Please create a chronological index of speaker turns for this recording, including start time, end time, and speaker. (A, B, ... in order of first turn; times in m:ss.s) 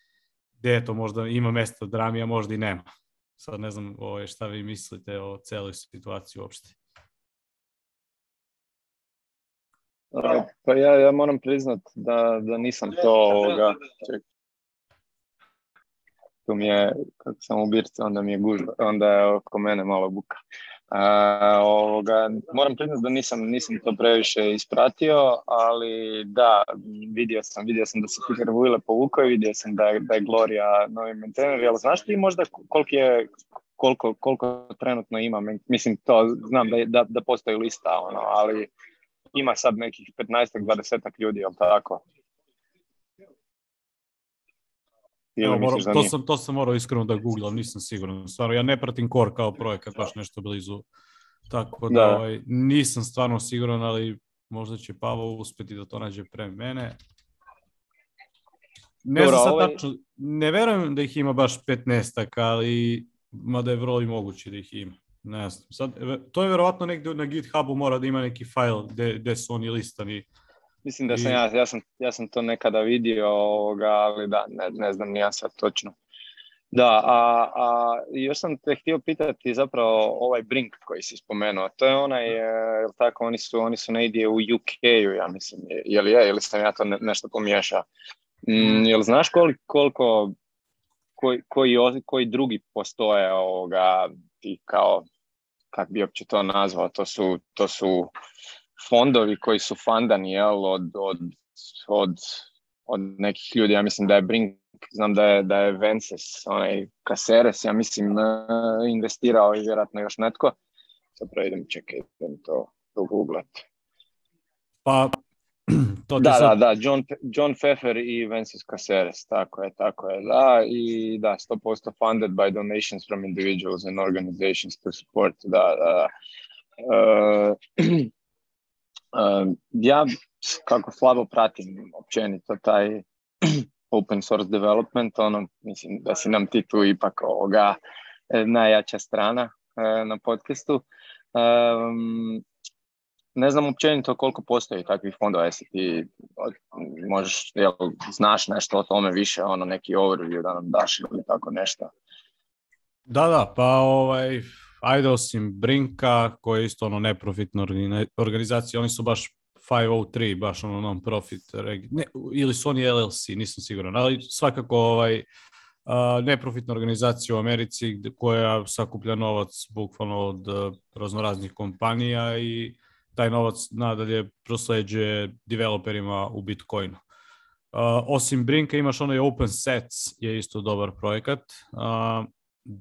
0:00.6-0:02.8 A
0:03.4-0:06.7 A
0:10.1-0:14.2 B
0:16.5-0:20.3 B
0:20.9-0:38.7 B
0:39.3-0:42.0 B
0:45.4-0:46.1 B
0:45.4-0:50.8 A
0:51.5-0:57.0 A
0:51.9-0:52.2 B
0:59.0-1:10.2 A
0:59.1-0:59.8 B
1:10.8-1:15.9 B
1:11.1-1:11.4 A
1:16.7-1:27.9 B
1:28.4-1:30.4 B
1:31.2-1:35.1 B
1:35.7-1:38.1 B
1:38.8-1:50.6 B
1:51.2-1:53.6 B
1:54.8-1:56.5 A
1:56.2-2:06.1 B
2:06.8-2:08.1 B
2:09.1-2:17.8 B
2:18.3-2:22.4 B
2:23.3-2:31.9 B
2:33.1-2:45.2 A
2:45.8-2:57.0 A
2:57.7-3:02.3 A